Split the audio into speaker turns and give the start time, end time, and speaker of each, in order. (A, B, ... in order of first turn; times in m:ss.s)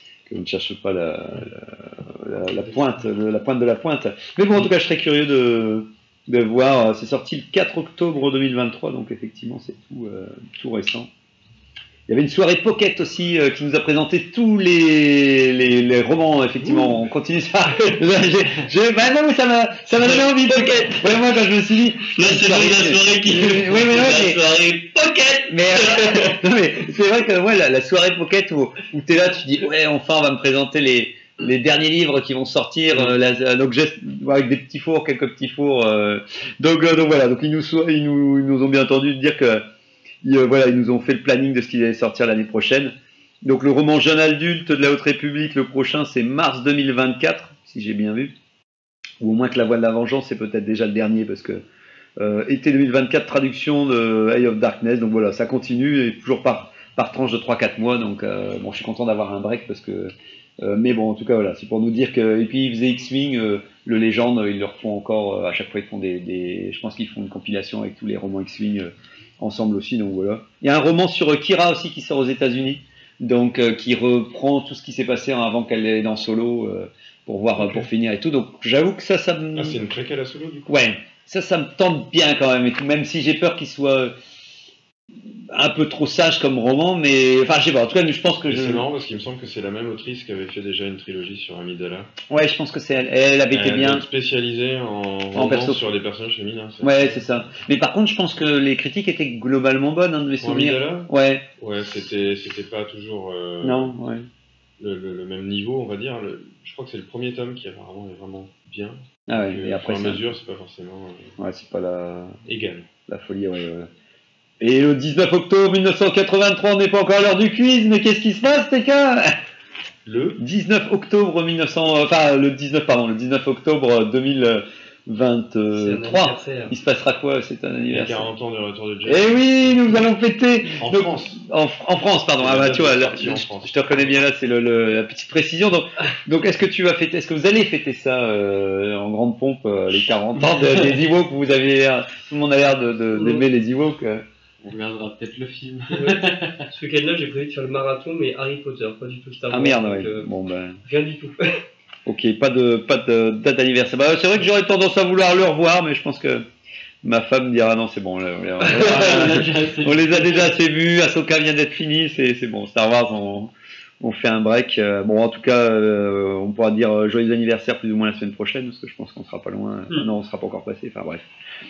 0:00.3-0:11.1 A
0:12.1-0:24.4 A
0:16.6-0:16.9 B
0:20.0-0:21.2 B
0:22.1-0:26.4 B
0:25.5-0:39.6 A
0:40.2-0:48.3 A
0:49.2-0:51.6 A
0:52.2-1:19.8 A
1:17.6-1:17.9 C
1:19.5-1:20.7 C
1:20.7-1:24.1 A
1:25.5-1:28.9 A
1:28.5-1:32.1 C
1:32.3-1:34.0 A
1:33.5-1:37.2 C
1:35.3-1:35.9 A
1:36.8-1:41.5 A
1:40.4-1:43.9 C
1:43.6-1:44.3 A
1:44.8-1:51.3 C
1:49.3-1:50.2 A
1:51.4-1:52.4 A
1:52.4-1:52.9 C
1:53.1-1:53.9 A
1:54.6-1:59.3 A
2:00.0-2:00.4 C
2:00.4-2:08.3 A
2:05.8-2:06.8 B
2:07.9-2:09.4 C
2:09.0-2:24.2 A
2:10.8-2:11.4 C
2:12.4-2:14.1 C
2:23.1-2:23.4 B
2:24.6-2:26.6 D
2:25.9-2:30.3 B
2:29.5-2:30.8 A
2:30.8-2:31.6 B
2:32.0-2:36.4 A
2:37.0-2:51.3 A
2:38.7-2:40.5 D
2:38.8-2:39.1 B